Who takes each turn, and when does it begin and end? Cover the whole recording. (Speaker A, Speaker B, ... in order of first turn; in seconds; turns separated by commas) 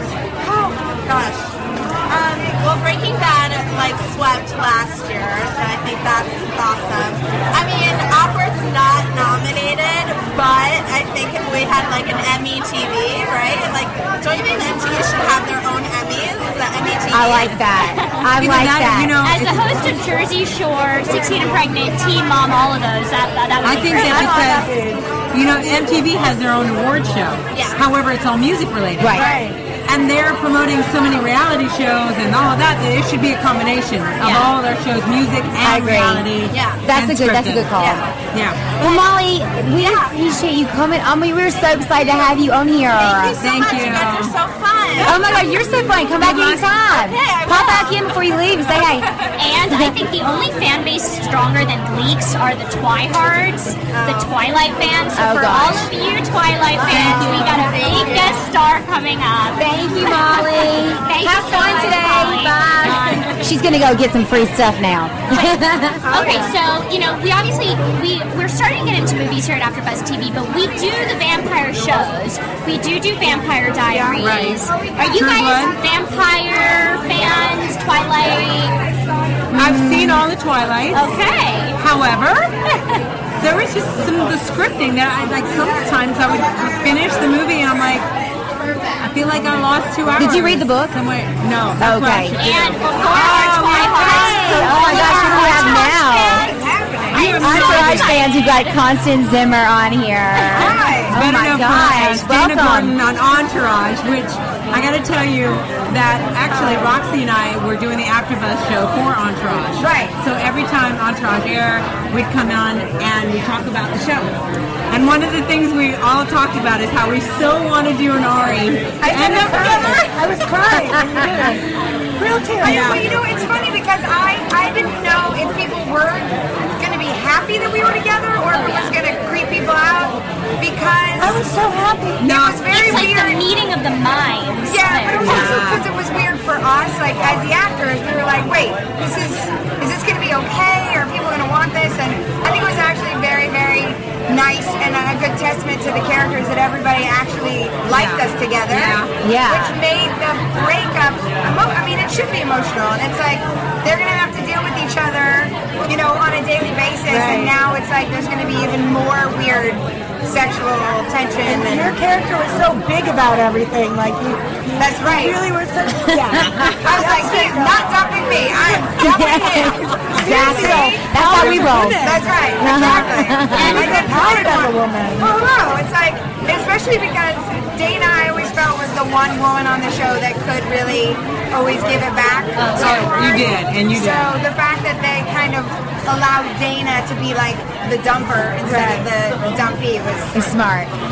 Speaker A: 0.4-17.5, Speaker B: 17.1-19.2, Speaker C: 18.4-19.7, Speaker D: 19.2-24.4, Speaker C: 23.6-24.7, Speaker E: 23.9-25.1, Speaker C: 25.3-37.7, Speaker A: 27.5-27.8, Speaker B: 29.0-29.3, Speaker E: 29.1-29.6, Speaker D: 34.2-34.5, Speaker B: 35.6-38.1, Speaker A: 36.5-36.8, Speaker A: 37.8-38.0, Speaker C: 38.3-38.8, Speaker B: 38.8-43.4, Speaker A: 39.8-40.1, Speaker A: 42.9-45.6, Speaker C: 43.4-44.4, Speaker B: 45.0-49.1, Speaker C: 46.2-46.7, Speaker A: 46.8-49.3, Speaker D: 49.4-63.2, Speaker B: 49.7-50.0, Speaker A: 53.9-54.4, Speaker B: 55.2-55.9, Speaker B: 56.7-58.3, Speaker A: 56.9-58.4, Speaker B: 59.6-66.0, Speaker A: 62.8-63.4, Speaker E: 66.1-66.6, Speaker D: 66.1-78.8, Speaker E: 73.9-74.2, Speaker C: 74.2-75.8, Speaker B: 79.5-80.3, Speaker C: 79.5-81.1, Speaker D: 80.9-81.8, Speaker C: 81.8-82.5, Speaker C: 83.4-88.1, Speaker C: 89.0-95.5, Speaker B: 90.2-91.0, Speaker B: 91.8-92.4, Speaker D: 92.4-98.8, Speaker B: 93.1-96.5, Speaker A: 94.9-97.3, Speaker C: 97.1-98.2, Speaker B: 97.1-103.0, Speaker D: 100.4-100.7, Speaker F: 100.5-101.2, Speaker C: 101.1-114.3, Speaker E: 106.5-106.9, Speaker F: 109.8-110.1, Speaker C: 114.9-119.9, Speaker E: 119.0-121.7, Speaker F: 119.2-120.0, Speaker E: 122.2-123.0, Speaker F: 122.6-131.4, Speaker C: 122.6-123.0, Speaker D: 128.5-129.0, Speaker E: 131.2-132.3, Speaker C: 132.2-132.6, Speaker F: 132.2-133.4, Speaker D: 132.6-135.4, Speaker F: 134.7-162.0, Speaker C: 135.2-135.9, Speaker C: 147.9-149.1, Speaker B: 149.2-149.8, Speaker E: 157.1-157.6, Speaker E: 161.4-175.3, Speaker F: 164.8-165.4, Speaker B: 166.0-166.9, Speaker F: 166.8-190.4, Speaker B: 168.9-172.1, Speaker B: 172.6-173.9, Speaker D: 173.5-173.9, Speaker D: 182.6-183.1, Speaker C: 182.8-184.4, Speaker E: 188.7-189.1, Speaker B: 190.3-190.9